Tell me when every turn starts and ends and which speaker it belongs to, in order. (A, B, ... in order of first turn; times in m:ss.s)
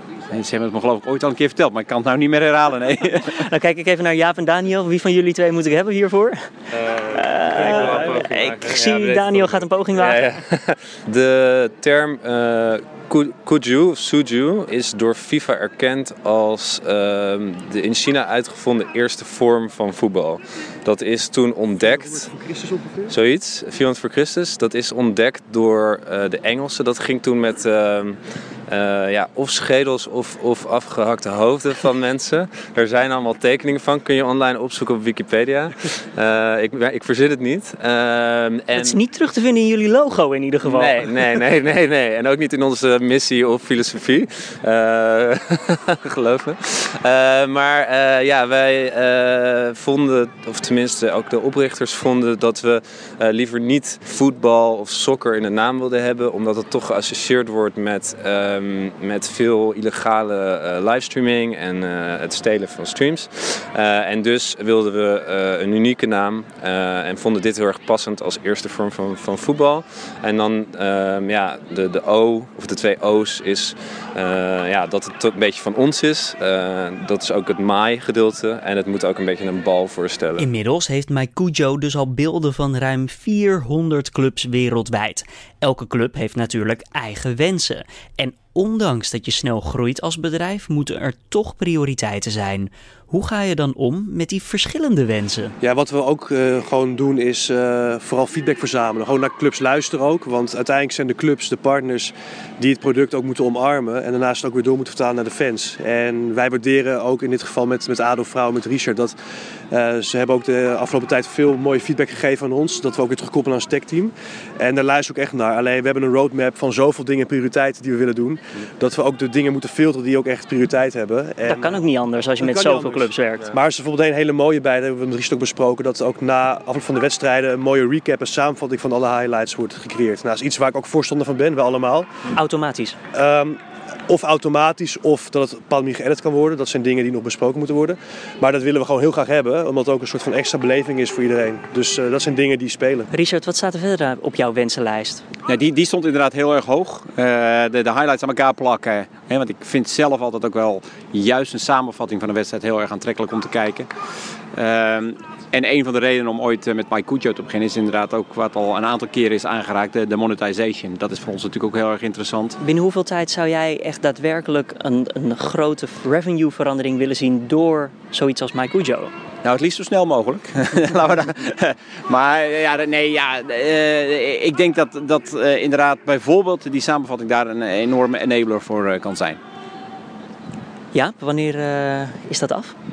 0:00.3-0:03.4 A
0:03.3-0:06.5 B
0:06.7-0:22.3 C
0:07.1-0:10.2 B
0:21.8-0:23.1 D
0:23.1-0:39.0 C
0:38.7-0:41.3 B
0:40.6-1:20.5 C
1:20.4-1:35.6 B
1:35.6-1:49.1 D
1:49.7-2:01.8 D
2:01.5-2:03.5 B
2:02.4-2:12.3 D
2:12.3-2:13.0 B
2:13.1-2:23.1 D
2:23.1-2:25.2 B
2:25.5-2:33.9 A
2:34.5-2:42.6 A
2:42.6-2:49.1 B
2:49.4-2:59.4 A
3:00.9-3:02.7 B